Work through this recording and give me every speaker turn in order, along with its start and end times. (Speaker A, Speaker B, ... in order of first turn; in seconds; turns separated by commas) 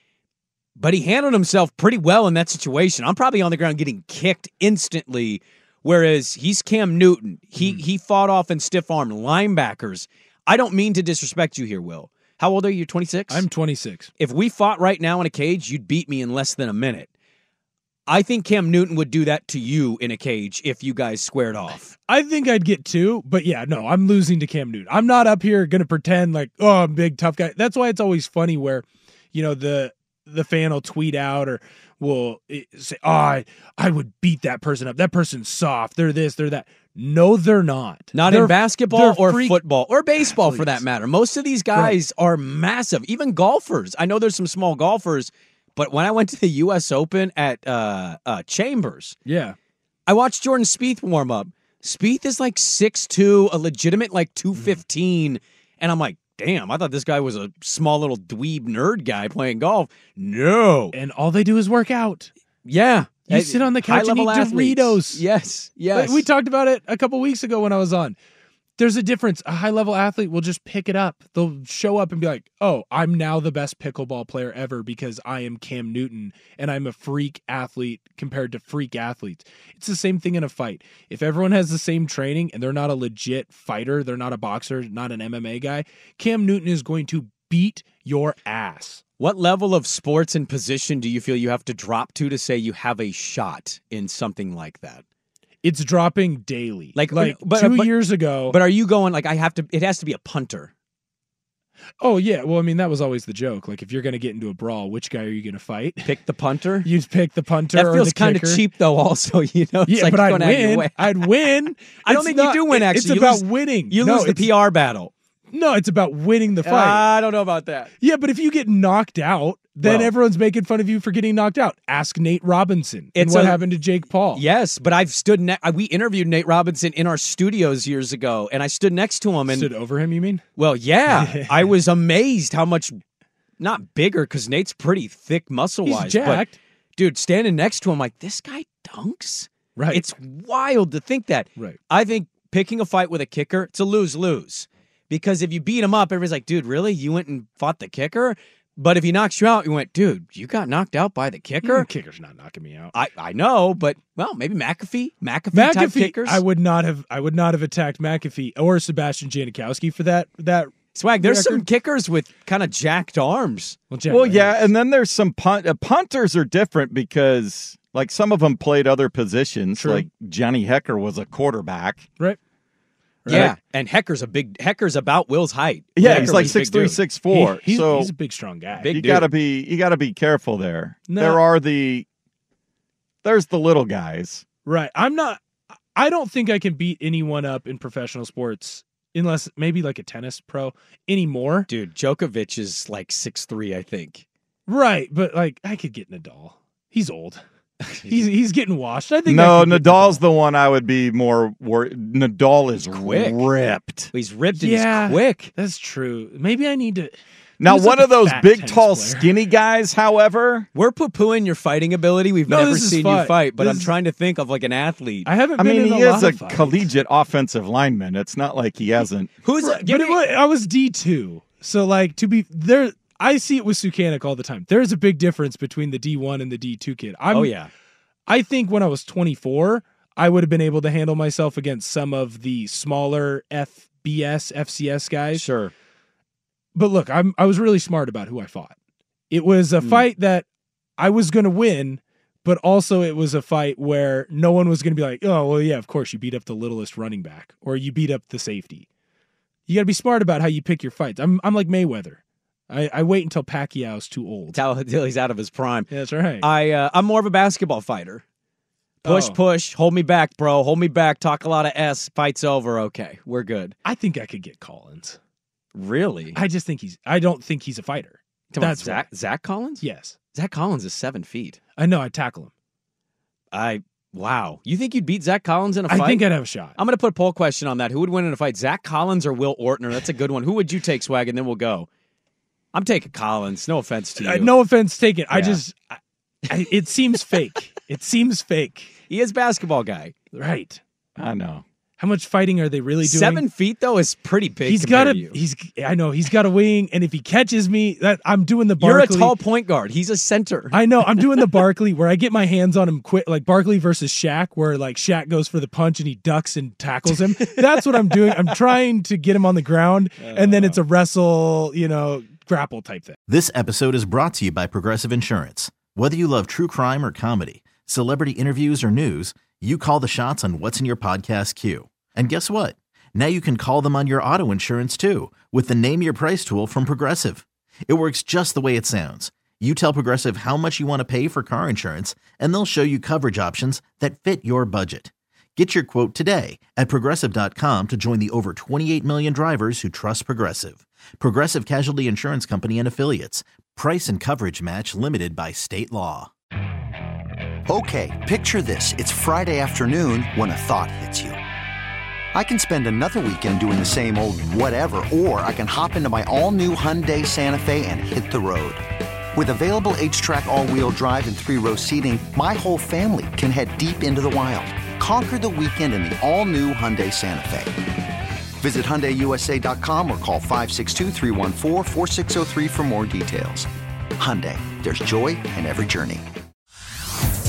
Speaker A: 0.8-13.4, Speaker B: 13.3-14.1, Speaker A: 14.2-17.1, Speaker A: 18.1-21.9, Speaker B: 22.0-40.9, Speaker A: 38.1-49.1, Speaker B: 49.2-49.5, Speaker A: 50.1-60.9, Speaker B: 60.9-62.3, Speaker A: 62.6-66.2, Speaker B: 63.2-65.2, Speaker B: 65.9-68.2, Speaker B: 68.8-89.0, Speaker A: 89.2-95.0, Speaker B: 95.6-98.6, Speaker A: 96.9-100.7, Speaker B: 102.0-106.2, Speaker A: 106.0-106.9, Speaker B: 106.8-108.7, Speaker A: 107.7-115.1, Speaker B: 109.8-114.6, Speaker B: 115.5-117.1, Speaker A: 116.6-117.9, Speaker B: 118.0-124.4, Speaker A: 119.8-120.1, Speaker A: 123.1-123.6, Speaker A: 124.3-129.7, Speaker B: 129.5-130.4, Speaker A: 130.6-133.0, Speaker B: 131.1-131.7, Speaker A: 133.6-151.9, Speaker B: 135.8-136.6, Speaker B: 139.8-140.1, Speaker B: 151.6-152.9, Speaker A: 152.9-156.4, Speaker B: 155.5-161.7, Speaker A: 160.9-163.8, Speaker B: 163.9-164.7, Speaker C: 164.1-172.1, Speaker B: 169.7-170.1, Speaker B: 173.2-173.6, Speaker A: 173.3-177.0, Speaker C: 175.9-178.1, Speaker B: 176.0-179.0, Speaker A: 178.8-179.3, Speaker C: 178.9-182.1, Speaker B: 181.1-181.4, Speaker C: 183.2-184.4, Speaker B: 184.6-185.4, Speaker B: 185.9-191.7, Speaker A: 191.7-194.2, Speaker B: 194.7-197.4, Speaker A: 197.8-198.2, Speaker B: 198.1-200.2, Speaker C: 199.3-204.1, Speaker A: 202.8-203.4, Speaker A: 204.1-205.5, Speaker B: 204.5-209.4, Speaker C: 207.6-210.7, Speaker A: 210.7-215.3, Speaker B: 212.5-213.9, Speaker B: 215.2-216.9, Speaker C: 215.6-219.3, Speaker A: 219.4-220.2, Speaker B: 219.6-227.6, Speaker A: 227.3-227.7, Speaker B: 228.3-235.4, Speaker A: 235.3-235.7, Speaker B: 236.7-238.7, Speaker B: 239.3-240.4, Speaker B: 241.0-248.8, Speaker B: 249.7-254.6, Speaker A: 254.5-255.9, Speaker B: 255.9-256.5, Speaker A: 256.4-258.2, Speaker B: 259.0-259.4, Speaker A: 259.1-263.7, Speaker B: 263.8-265.2, Speaker A: 265.7-266.4, Speaker B: 266.3-269.1, Speaker A: 268.5-269.8, Speaker B: 269.8-270.1, Speaker A: 270.3-271.6, Speaker B: 271.8-272.5, Speaker A: 273.5-276.2, Speaker B: 275.9-276.8, Speaker A: 276.8-281.9, Speaker A: 282.7-284.5, Speaker B: 284.2-288.9, Speaker A: 285.3-285.6, Speaker A: 289.1-290.1, Speaker B: 290.3-290.8, Speaker C: 291.2-291.6, Speaker B: 292.0-293.5, Speaker A: 293.0-295.4, Speaker B: 294.6-299.4, Speaker A: 298.8-301.4, Speaker B: 300.7-313.2, Speaker A: 307.2-308.5, Speaker D: 313.3-346.3, Speaker E: 347.7-351.4, Speaker E: 352.3-358.8, Speaker E: 359.3-367.8, Speaker E: 368.6-376.2